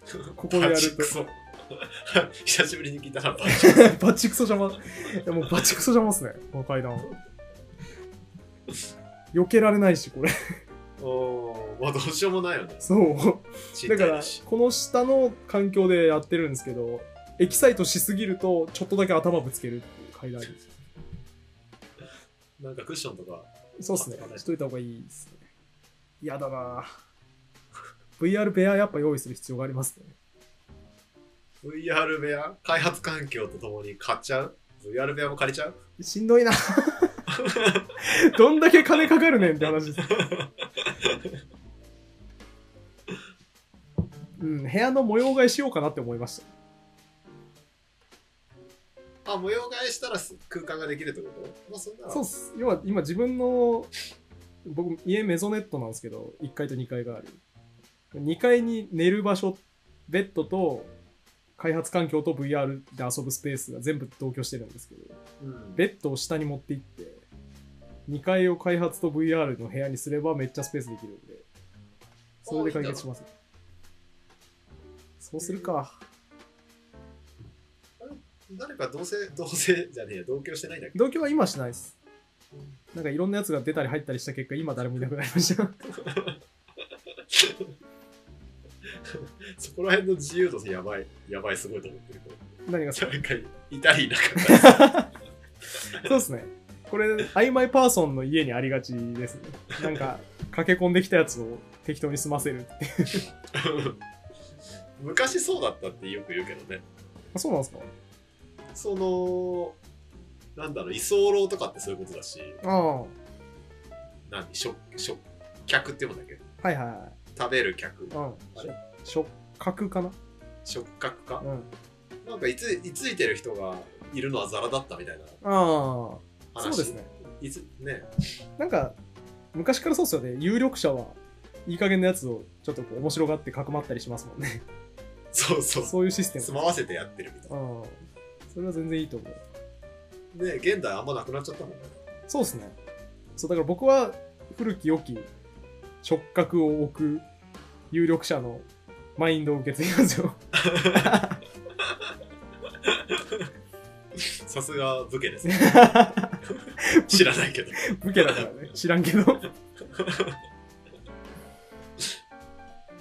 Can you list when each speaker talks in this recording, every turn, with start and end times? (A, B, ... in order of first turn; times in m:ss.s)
0:00.1-0:04.0 A
0:00.4-0:01.1 B
0:03.5-0:07.2 B
0:09.3-0:10.3 B
0:11.0-0:12.9 A
0:12.8-0:20.6 B
0:13.7-0:14.4 A
0:22.6-0:24.5 A
0:23.8-0:25.4 B
0:26.2-0:26.9 B
0:28.2-0:30.1 B
0:31.6-0:35.8 A
0:36.0-0:37.2 B
0:37.3-0:37.9 A
0:38.0-0:40.2 B
0:40.0-0:41.4 A
0:44.4-0:46.5 B
0:49.2-0:52.2 A
0:52.1-0:53.9 B
0:54.6-0:57.4 B
0:58.1-1:00.9 B
1:01.6-1:05.2 B
1:05.4-1:05.8 A
1:05.8-1:07.3 B
1:08.1-1:11.4 B
1:12.4-1:13.3 B
1:12.4-1:13.1 A
1:15.2-1:16.0 B
1:15.4-1:15.8 A
1:18.0-1:21.0 A
1:20.9-1:22.0 B
1:22.9-1:25.8 B
1:25.9-1:26.4 A
1:27.3-1:27.7 A
1:28.9-1:32.4 A
1:32.7-1:33.1 B
1:33.0-1:35.0 A
1:34.4-1:35.1 B
1:35.9-1:43.2 B
1:39.8-1:40.1 A
1:43.5-1:44.0 A
1:45.0-1:46.8 A
1:47.3-1:47.9 B
1:48.8-1:49.8 A
1:50.6-1:52.6 A
1:52.6-1:53.2 B
1:54.3-1:56.4 A
1:56.6-1:57.2 B
1:57.4-1:58.8 A
1:58.1-2:00.2 B
2:00.6-2:01.4 A
2:01.4-2:01.7 B
2:02.2-2:05.4 A
2:05.4-2:07.1 B
2:06.5-2:08.1 A
2:08.6-2:09.0 B
2:09.5-2:14.6 B
2:15.3-2:17.5 A
2:15.8-2:16.6 B
2:17.5-2:19.4 B
2:20.3-2:22.0 A
2:22.3-2:22.8 B
2:23.4-2:25.3 B
2:26.0-2:27.3 B
2:27.9-2:28.7 B
2:29.2-2:30.4 B
2:30.6-2:31.2 A
2:30.9-2:31.4 B
2:32.8-2:33.5 A
2:34.2-2:38.5 A
2:35.5-2:39.5 B
2:39.9-2:40.4 A